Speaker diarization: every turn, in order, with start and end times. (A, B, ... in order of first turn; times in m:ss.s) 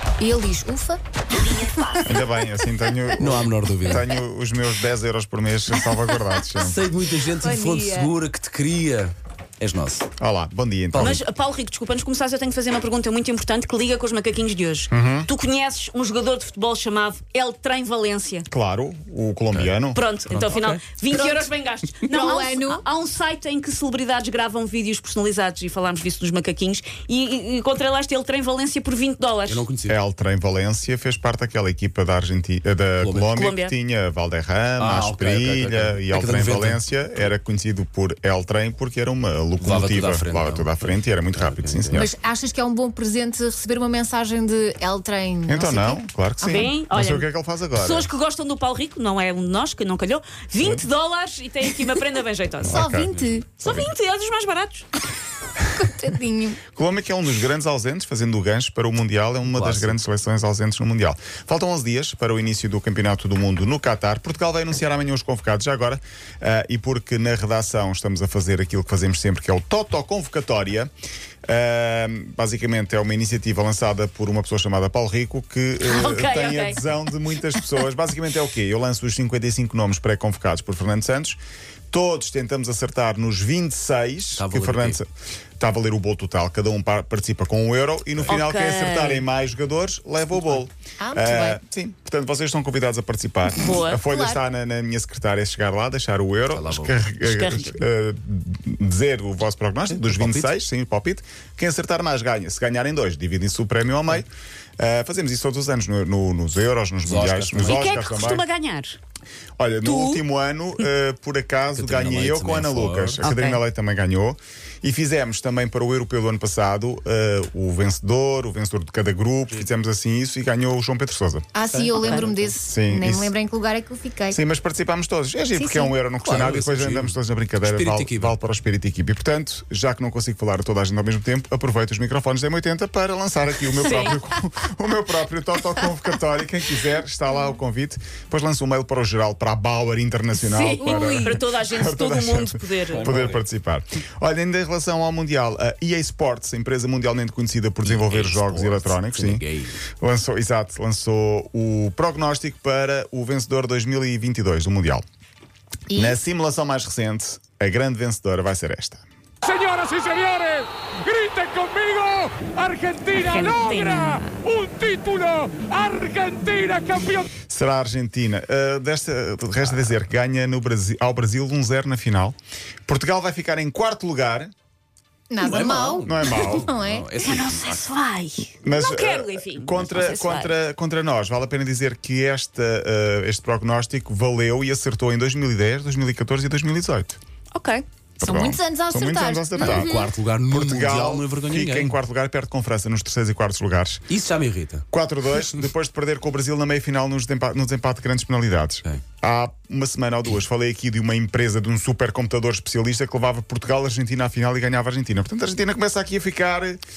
0:00.2-0:02.3 A
0:02.0-0:06.8 B
0:03.2-0:04.0 C
0:06.6-0:10.1 C
0:07.3-0:08.1 A
0:10.2-0:11.2 B
0:10.9-0:11.2 C
0:11.0-0:18.5 D
0:14.9-0:15.3 B
0:18.5-0:20.0 B
0:19.9-0:29.7 D
0:20.3-0:20.8 C
0:21.1-0:21.5 A
0:22.1-0:22.8 A
0:29.5-0:30.0 C
0:29.9-0:42.1 B
0:33.0-0:33.3 C
0:33.3-0:33.7 D
0:34.8-0:36.8 C
0:39.6-0:42.1 C
0:41.9-0:46.8 A
0:45.5-0:48.1 B
0:46.4-0:52.9 D
0:50.6-0:50.8 B
0:52.6-0:53.9 B
0:52.7-0:53.5 A
0:53.6-0:54.9 D
0:55.7-0:56.6 A
0:56.7-1:10.9 B
0:59.5-1:00.0 C
1:11.5-1:21.4 B
1:15.8-1:16.8 D
1:21.9-1:25.1 B
1:24.4-1:25.0 C
1:25.6-1:44.3 B
1:28.3-1:29.3 D
1:31.0-1:31.6 A
1:33.6-1:34.3 D
1:36.5-1:37.0 C
1:37.2-1:37.8 D
1:39.9-1:40.5 C
1:44.8-1:48.4 B
1:47.0-1:47.8 C
1:47.6-1:49.0 D
1:49.6-2:01.5 B
1:49.8-1:50.2 D
1:51.7-1:53.2 C
1:53.2-1:53.6 D
2:01.5-2:04.4 A
2:02.0-2:02.3 D
2:02.7-2:03.3 B
2:04.3-2:29.4 B
2:05.6-2:06.0 A
2:06.2-2:08.4 C
2:13.7-2:14.2 D
2:20.4-2:23.1 D
2:20.8-2:21.4 A
2:22.9-2:23.4 C
2:27.8-2:29.8 C
2:30.0-2:35.0 B
2:35.9-2:36.2 A
2:36.0-2:39.0 B
2:39.5-2:43.0 E
2:43.0-2:44.5 D
2:44.5-2:47.2 E
2:47.4-2:54.5 B
2:55.3-2:57.1 A
2:55.4-2:57.8 C
2:56.0-2:56.7 B
2:57.2-3:00.6 D
2:58.6-3:07.2 B
3:07.5-3:07.8 D
3:08.2-3:14.1 B
3:08.2-3:10.1 A
3:09.6-3:12.0 C
3:14.1-3:14.9 C
3:14.9-3:26.8 B